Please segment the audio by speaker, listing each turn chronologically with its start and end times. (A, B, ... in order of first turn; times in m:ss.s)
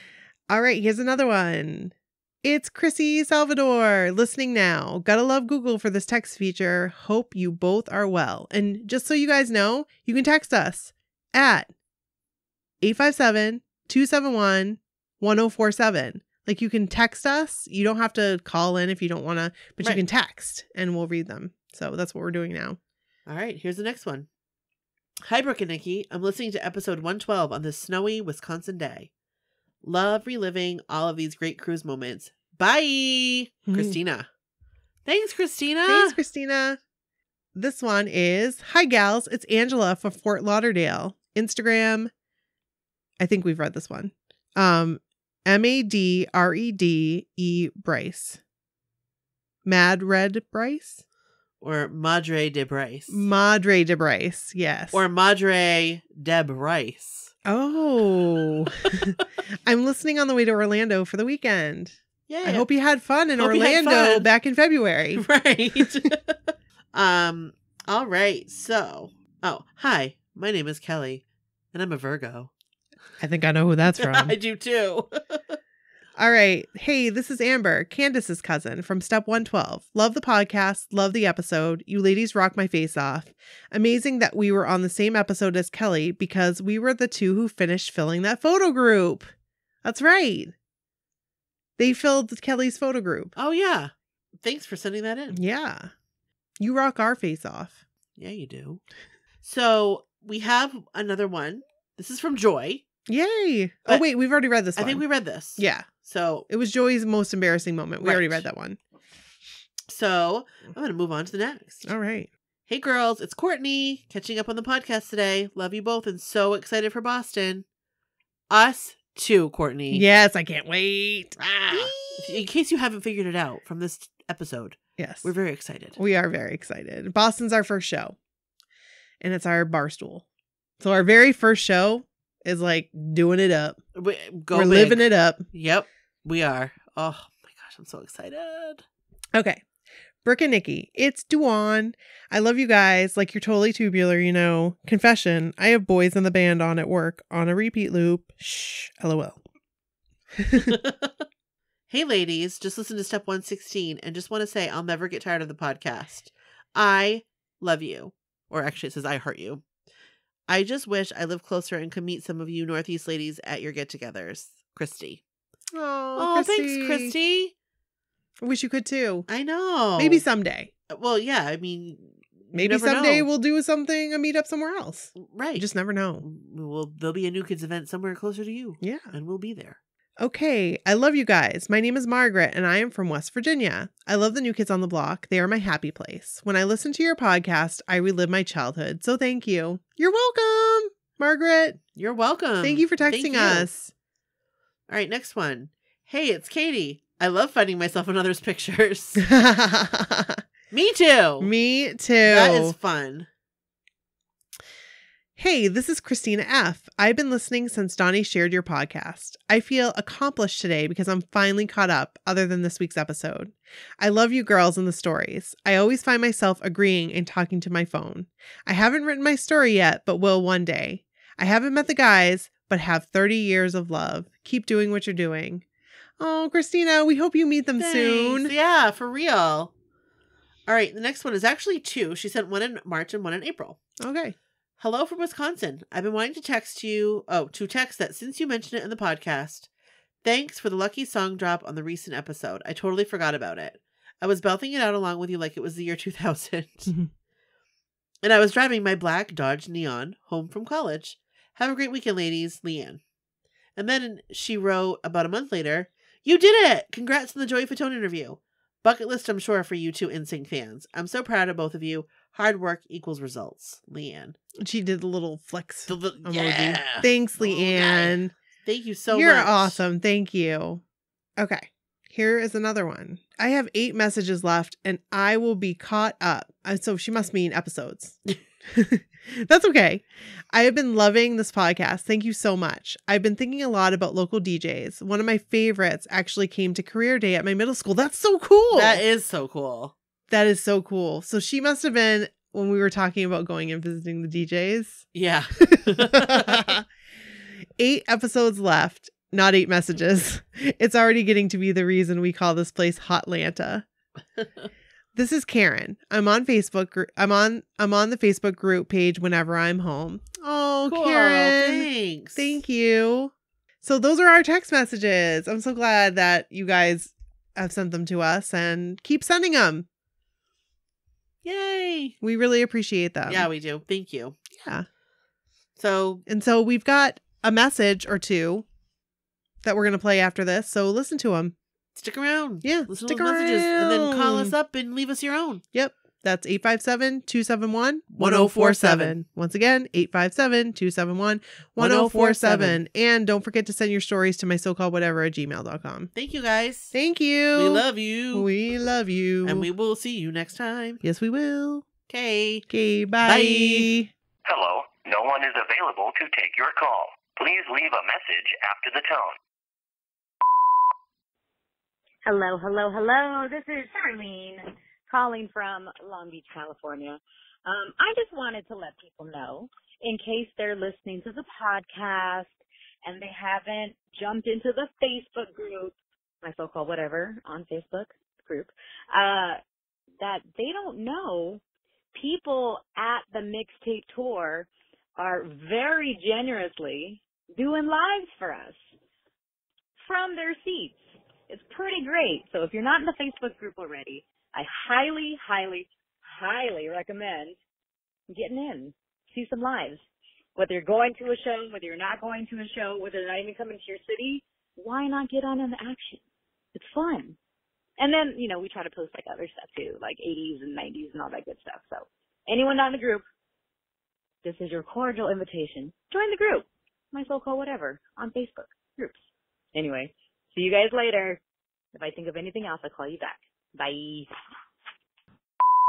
0:00.5-0:11.7 A
0:12.8-0:22.8 A
0:23.3-0:24.3 B
0:25.3-0:29.1 B
0:29.8-0:34.3 B
0:33.7-0:34.0 A
0:35.1-0:36.2 B
0:35.9-0:36.8 A
0:37.6-0:42.1 A
0:43.2-0:48.4 A
0:49.6-0:51.0 A
0:51.6-0:53.3 B
0:53.1-0:55.0 A
0:54.9-0:57.3 B
0:57.4-1:05.2 A
1:02.3-1:02.7 B
1:03.4-1:04.3 B
1:05.2-1:12.5 B
1:05.8-1:06.1 A
1:13.2-1:14.4 A
1:14.0-1:15.6 B
1:16.2-1:29.3 A
1:29.8-1:30.5 A
1:31.8-1:33.4 A
1:33.4-1:35.4 B
1:35.3-1:35.9 A
1:36.6-1:37.8 A
1:38.2-1:38.8 B
1:39.4-1:42.8 B
1:43.1-1:45.0 A
1:44.8-1:46.5 B
1:45.6-1:45.9 A
1:46.5-1:48.8 A
1:48.0-1:48.4 B
1:49.9-1:51.9 B
1:51.8-1:52.3 A
1:52.7-1:57.6 B
1:58.5-2:00.0 B
1:59.9-2:02.4 A
2:01.4-2:06.0 B
2:05.0-2:05.3 A
2:06.0-2:08.2 A
2:09.2-2:10.2 A
2:10.8-2:13.8 A
2:14.0-2:18.8 B
2:14.5-2:15.4 A
2:19.3-2:19.6 A
2:20.2-2:29.4 A
2:30.4-2:30.8 A
2:30.6-2:31.2 B
2:31.9-2:39.6 B
2:40.5-2:45.2 B
2:45.7-2:47.1 A
2:46.2-2:47.5 B
2:48.4-2:49.3 A
2:49.3-2:50.2 B
2:50.0-2:50.7 A
2:50.9-2:53.3 B
2:52.5-2:56.2 A
2:55.2-2:55.7 B
2:56.2-2:59.8 B
2:58.8-2:59.1 A
3:00.2-3:11.8 A
3:12.0-3:13.7 B
3:12.6-3:13.9 A
3:14.9-3:19.2 B
3:19.2-3:20.4 A
3:20.7-3:21.5 B
3:21.4-3:22.8 A
3:22.2-3:23.3 B
3:25.4-3:45.6 A
3:46.2-3:48.5 A
3:47.8-3:49.7 B
3:50.7-3:53.8 B
3:54.0-3:54.4 A
3:54.8-3:59.7 B
4:00.2-4:06.9 B
4:08.2-4:13.0 B
4:13.8-4:24.4 B
4:24.6-4:28.3 A
4:25.9-4:29.8 B
4:29.1-4:30.8 A
4:31.4-4:49.0 A
4:48.7-4:49.9 B
4:50.3-4:55.1 A
4:55.1-4:56.7 B
4:55.6-4:56.8 A
4:57.8-5:03.9 A
5:04.4-5:04.7 B
5:05.2-5:19.9 A
5:10.8-5:12.6 B
5:21.4-5:22.2 B
5:22.2-5:23.5 A
5:23.3-5:24.4 B
5:24.5-5:24.9 A
5:25.8-5:26.2 B
5:26.3-5:28.6 A
5:29.6-5:31.6 A
5:32.0-5:35.6 B
5:32.6-5:34.6 A
5:35.7-5:46.1 A
5:38.1-5:39.2 B
5:41.8-5:42.8 B
5:46.2-5:47.0 B
5:46.9-5:49.7 A
5:47.5-5:48.5 B
5:49.4-5:51.0 B
5:51.0-5:51.9 A
5:52.1-5:52.7 B
5:52.7-5:54.1 A
5:53.2-5:53.9 B
5:54.4-5:59.4 C
6:02.2-6:19.6 D
6:20.2-6:21.6 D
6:22.1-6:28.8 D
6:30.0-6:37.6 D
6:38.3-6:46.2 D
6:46.7-6:47.4 D
6:48.0-6:53.2 D
6:54.4-6:59.2 D
6:59.7-7:01.4 D
7:01.9-7:04.3 D